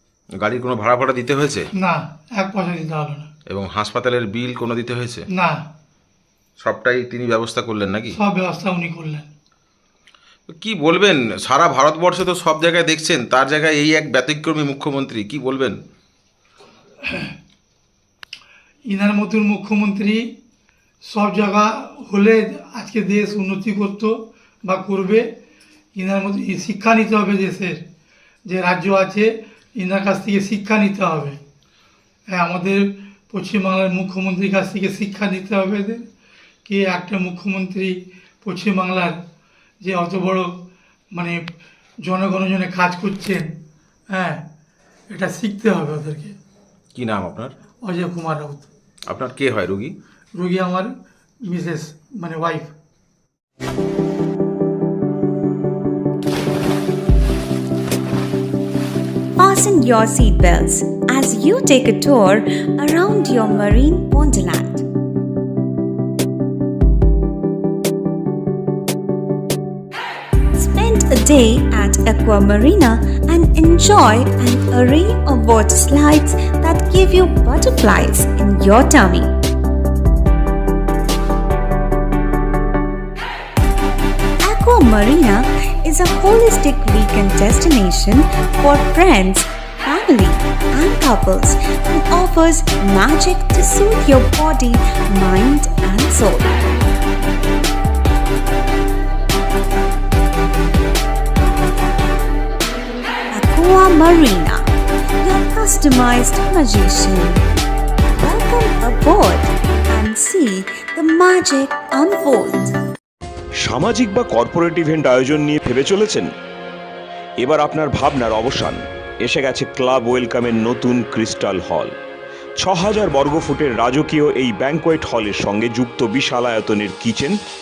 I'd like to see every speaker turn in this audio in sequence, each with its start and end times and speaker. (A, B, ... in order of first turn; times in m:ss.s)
0:00.4-0:01.7 A
0:01.8-0:03.3 B
0:03.5-0:05.2 A
0:05.3-0:05.6 B
0:06.6-0:08.2 A
0:08.1-0:09.3 B
0:10.5-0:15.8 A
0:17.0-0:17.3 B
0:18.9-0:20.3 B
0:21.0-0:25.3 B
0:26.0-0:27.8 B
0:28.5-0:31.4 B
0:32.3-0:36.0 B
0:36.7-0:39.2 B
0:39.8-0:40.5 B
0:41.1-0:41.4 B
0:42.0-0:43.5 B
0:44.1-0:44.4 B
0:45.1-0:46.4 B
0:46.9-0:47.5 A
0:47.8-0:48.7 B
0:49.1-0:49.9 A
0:50.3-0:50.9 B
0:51.5-0:52.7 B
0:59.4-1:04.8 C
1:10.6-1:19.3 C
1:24.4-1:36.7 C
1:43.3-1:44.7 C
1:45.2-1:47.4 C
1:48.2-1:52.8 C
1:53.6-1:56.3 D
1:57.4-2:02.0 D
2:02.6-2:07.4 D